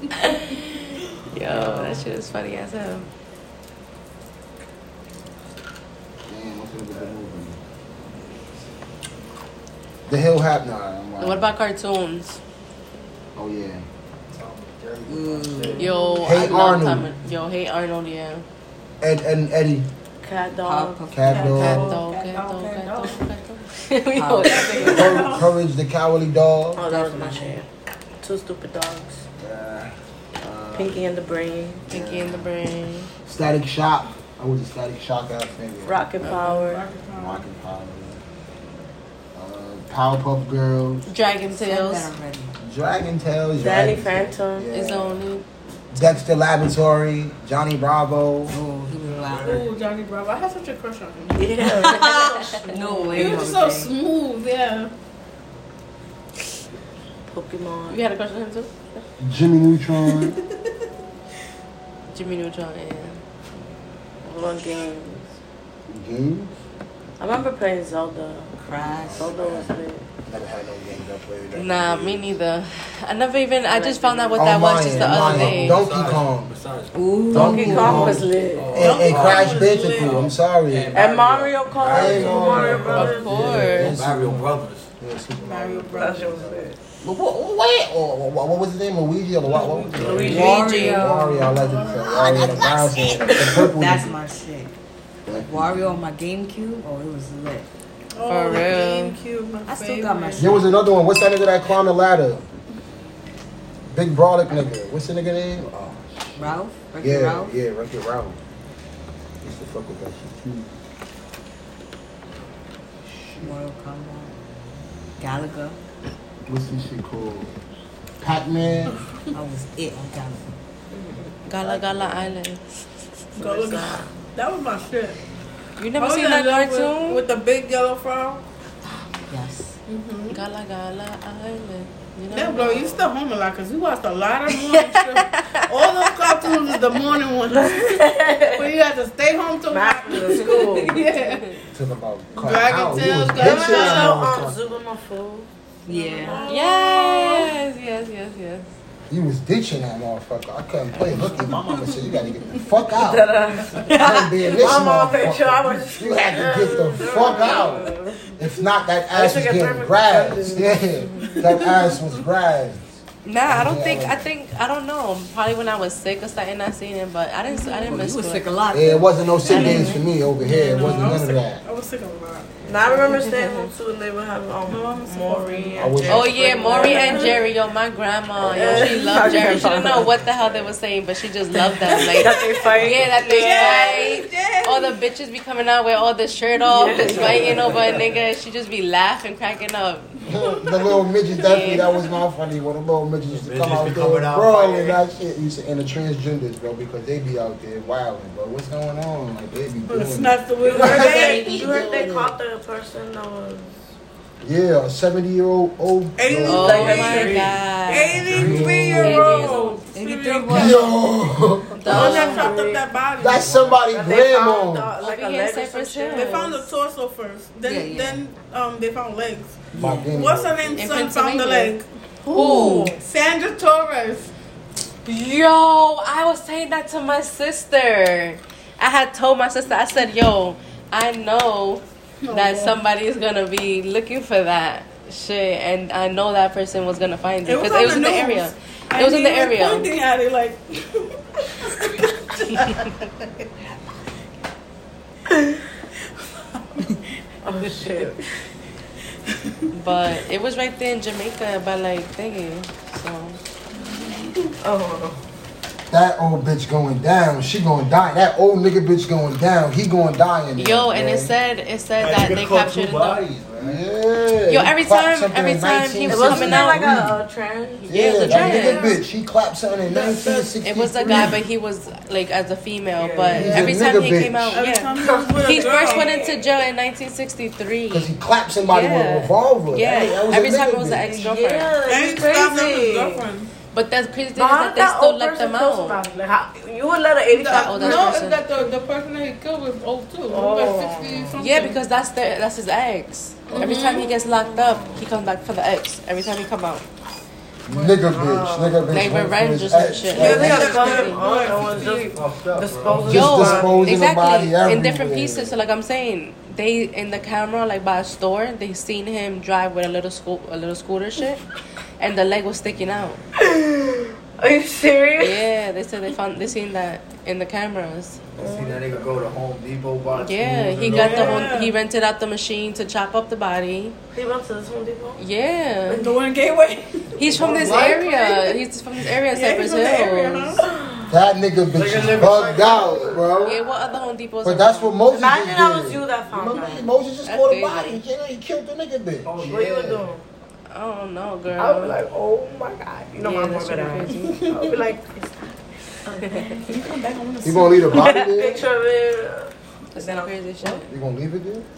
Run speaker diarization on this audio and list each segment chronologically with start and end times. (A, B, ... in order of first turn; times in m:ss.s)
0:00.3-0:00.8 A
0:01.3-0:03.1 A
0:01.4-0:02.1 B
0:06.3-0:07.6 C
0:10.1-0:11.5 C
0:11.2-0:12.4 A
0:13.4-0:13.8 C
0:14.3-0:16.1 D
0:15.1-0:15.9 B
0:15.8-0:18.4 A
0:15.9-0:16.5 E
0:16.2-0:17.1 C
0:19.0-0:19.9 C
0:20.2-0:21.0 F
0:20.6-0:21.6 B
0:21.1-0:21.9 C
0:21.3-0:23.3 E
0:21.4-0:25.3 A
0:24.1-0:25.1 B
0:24.4-0:25.5 E
0:24.9-0:26.8 C
0:26.8-0:27.7 F
0:26.9-0:27.6 B
0:28.2-0:29.2 F
0:29.4-0:31.0 C
0:30.7-0:31.9 F
0:31.9-0:32.5 C
0:31.9-0:33.1 A
0:33.2-0:36.0 C
0:35.8-0:36.9 F
0:36.2-0:36.6 A
0:36.3-0:37.4 E
0:37.2-0:38.2 C
0:39.4-0:41.1 C
0:41.1-0:42.1 A
0:41.5-0:42.6 B
0:42.6-0:45.2 C
0:43.6-0:44.7 F
0:44.7-0:45.4 A
0:45.9-0:48.6 C
0:48.5-0:49.7 B
0:49.2-0:49.6 D
0:49.4-0:51.9 E
0:51.4-0:53.4 F
0:51.6-0:53.9 B
0:53.1-0:54.9 E
0:57.3-0:58.0 F
0:57.9-0:59.0 A
0:59.2-1:00.4 C
1:00.0-1:00.4 E
1:02.1-1:03.2 A
1:04.2-1:05.3 F
1:05.9-1:06.5 C
1:07.2-1:08.5 F
1:08.6-1:09.3 B
1:08.8-1:09.7 C
1:09.1-1:10.0 F
1:10.2-1:12.4 C
1:11.5-1:15.8 A
1:13.7-1:14.5 F
1:14.4-1:16.5 C
1:14.9-1:24.9 D
1:16.9-1:18.2 B
1:17.3-1:21.0 C
1:17.3-1:18.7 F
1:18.8-1:20.2 E
1:20.9-1:23.5 F
1:21.9-1:34.2 C
1:22.5-1:23.0 E
1:22.8-1:24.0 A
1:25.4-1:26.5 E
1:25.9-1:26.8 F
1:29.4-1:30.4 E
1:30.0-1:30.4 F
1:30.0-1:34.7 B
1:30.1-1:30.5 D
1:30.2-1:31.1 A
1:31.2-1:32.6 E
1:35.2-1:35.9 C
1:35.3-1:37.7 B
1:38.1-1:40.6 E
1:38.2-1:39.2 A
1:39.7-1:40.6 B
1:40.4-1:42.4 C
1:43.9-1:48.4 C
1:46.4-1:47.5 B
1:49.4-1:50.7 C
1:53.0-1:53.6 C
1:53.4-1:54.4 B
1:55.2-1:55.8 B
1:56.5-1:57.5 C
1:58.2-1:59.0 C
1:59.3-2:00.5 B
2:00.9-2:01.2 F
2:01.4-2:02.6 A
2:01.6-2:02.4 C
2:03.4-2:04.1 F
2:03.4-2:05.2 E
2:05.8-2:07.2 A
2:05.9-2:08.4 E
2:09.3-2:09.8 B
2:09.9-2:10.4 E
2:10.3-2:13.1 A
2:12.3-2:21.6 E
2:14.6-2:15.9 A
2:17.5-2:18.7 F
2:19.7-2:21.0 F
2:21.7-2:24.6 C
2:22.4-2:24.2 E
2:23.3-2:27.5 F
2:25.9-2:26.5 B
2:25.9-2:26.8 E
2:26.5-2:28.7 A
2:29.1-2:33.4 C
2:31.7-2:32.1 E
2:32.9-2:38.2 F
2:33.9-2:44.3 C
2:33.9-2:34.3 B
2:36.8-2:37.8 E
2:39.1-2:41.6 F
2:41.2-2:41.8 E
2:43.2-2:48.4 A
2:47.5-2:47.9 E
2:47.8-2:49.2 B
2:48.7-2:51.6 C
2:49.5-2:53.1 E
2:49.5-2:50.0 F
2:52.6-2:57.4 F
2:53.3-2:53.7 A
2:54.7-2:57.4 E
2:55.8-2:56.4 C
2:56.0-3:10.3 A
2:58.4-2:59.0 C
2:58.5-3:00.1 F
3:01.8-3:04.1 F
3:01.8-3:05.1 E
3:06.6-3:08.1 F
3:07.0-3:08.1 D
3:10.2-3:22.4 C
3:10.4-3:10.7 E
3:11.4-3:11.9 A
3:11.5-3:12.1 E
3:13.3-3:15.0 D
3:19.9-3:21.6 E
3:20.6-3:23.8 F
3:24.4-3:26.9 C
3:26.2-3:31.0 E
3:26.4-3:28.2 A
3:26.5-3:27.5 F
3:26.7-3:27.6 D
3:28.3-3:28.7 D
3:28.3-3:29.4 C
3:29.0-3:29.8 A
3:29.9-3:31.0 B
3:30.5-3:32.2 C
3:31.8-3:32.6 A
3:31.8-3:32.9 F
3:31.9-3:33.5 E
3:33.2-3:34.9 C
3:33.4-3:33.8 D
3:33.8-3:36.5 F
3:35.0-3:36.6 A
3:36.1-3:44.3 E
3:37.6-3:38.2 B
3:39.7-3:40.2 B
3:39.8-3:40.9 C
3:40.8-3:41.8 A
3:42.2-3:43.0 F
3:42.3-3:42.9 B
3:45.0-4:00.0 A
3:52.2-3:52.8 E
3:57.4-4:03.5 E
4:07.4-4:08.2 F
4:07.6-4:08.1 E
4:09.3-4:09.6 E
4:09.7-4:13.4 A
4:14.0-4:14.4 E
4:14.6-4:15.2 F
4:15.9-4:21.3 C
4:20.6-4:23.2 A
4:22.0-4:23.8 D
4:23.6-4:27.2 C
4:24.5-4:26.9 A
4:26.0-4:28.9 F
4:27.9-4:31.4 C
4:27.9-4:28.9 A
4:28.2-4:29.0 E
4:30.5-4:38.1 A
4:33.0-4:33.8 F
4:33.3-4:34.6 C
4:34.5-4:36.3 E
4:34.9-4:36.6 F
4:37.9-4:41.1 C
4:38.7-4:41.8 A
4:41.0-4:43.2 F
4:41.8-4:43.5 E
4:43.7-4:46.0 A
4:44.3-4:48.2 F
4:47.3-4:51.8 E
4:47.5-4:48.4 A
4:50.3-4:51.4 F
4:51.4-4:56.9 A
4:53.5-4:54.1 E
4:53.5-4:54.9 F
4:57.6-5:00.8 C
4:57.7-4:59.2 F
4:58.9-5:01.2 A
5:00.0-5:03.9 F
5:00.1-5:02.0 E
5:01.3-5:04.0 D
5:02.9-5:05.6 C
5:03.0-5:11.4 A
5:12.0-5:13.2 A
5:13.4-5:15.5 F
5:15.2-5:18.2 A
5:18.4-5:19.1 F
5:18.4-5:21.5 D
5:20.1-5:24.0 A
5:20.8-5:21.8 E
5:24.1-5:25.2 F
5:25.2-5:26.1 A
5:25.9-5:27.2 E
5:27.2-5:30.6 A
5:27.3-5:28.5 F
5:27.4-5:28.0 C
5:29.3-5:30.7 E
5:30.6-5:31.1 F
5:31.1-5:33.6 C
5:31.7-5:33.3 D
5:31.9-5:34.1 F
5:33.4-5:35.0 A
5:34.4-5:39.6 C
5:35.1-5:36.9 F
5:37.2-5:38.0 A
5:39.2-5:40.1 D
5:39.4-5:40.2 F
5:40.7-5:42.0 A
5:41.6-5:46.7 F
5:43.2-5:44.5 A
5:44.1-5:44.7 E
5:46.2-5:46.5 A
5:46.6-5:48.2 E
5:47.4-5:48.6 C
5:47.9-5:50.8 F
5:50.0-5:50.9 A
5:50.8-5:51.6 C